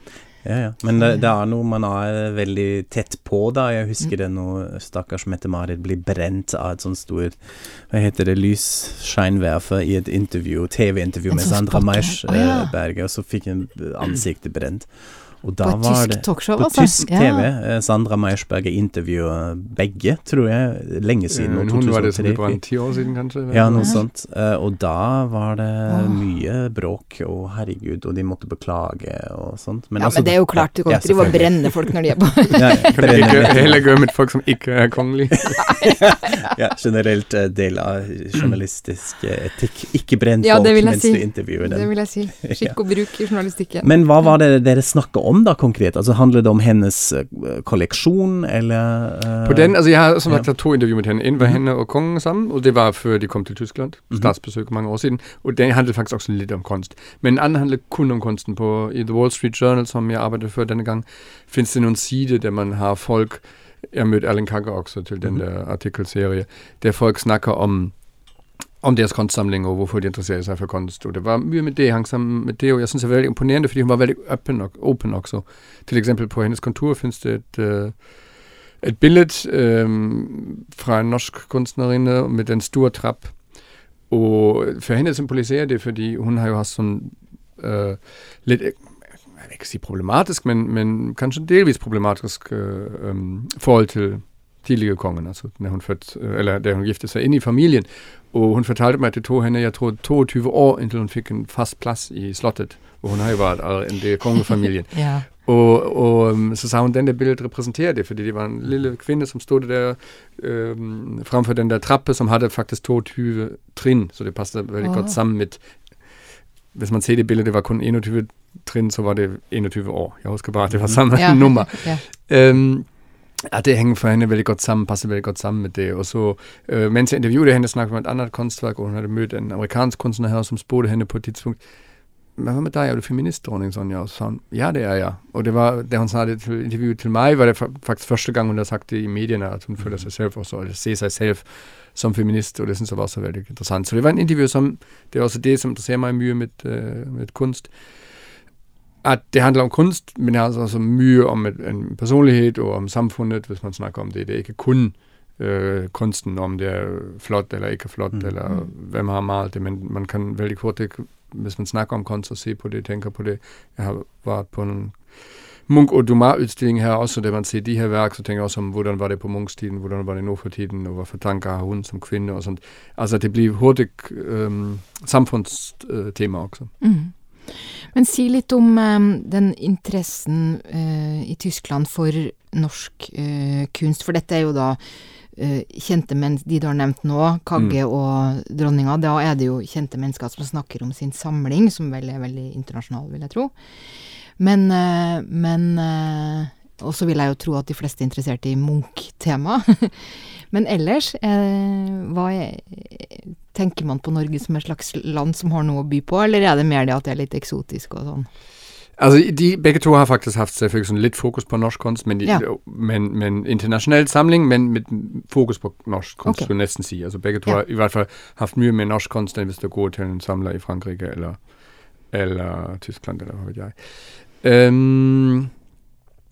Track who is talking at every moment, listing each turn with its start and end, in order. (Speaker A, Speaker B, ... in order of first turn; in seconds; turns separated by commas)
Speaker A: 0.4-22.6, Speaker B: 1.0-1.2, Speaker B: 11.3-12.7, Speaker B: 15.6-17.4, Speaker C: 21.3-24.0, Speaker A: 23.5-33.9, Speaker B: 25.9-26.2, Speaker B: 30.0-33.4, Speaker C: 32.8-35.8, Speaker B: 35.7-35.9, Speaker A: 36.0-43.0, Speaker B: 40.4-43.9, Speaker A: 43.8-50.5, Speaker C: 49.4-68.0, Speaker C: 68.8-147.7, Speaker B: 104.9-105.2, Speaker B: 114.8-115.2, Speaker A: 120.7-121.0, Speaker B: 121.1-122.0, Speaker A: 139.8-140.1, Speaker C: 149.0-176.7, Speaker B: 176.8-208.3, Speaker C: 209.0-225.5, Speaker B: 216.2-217.6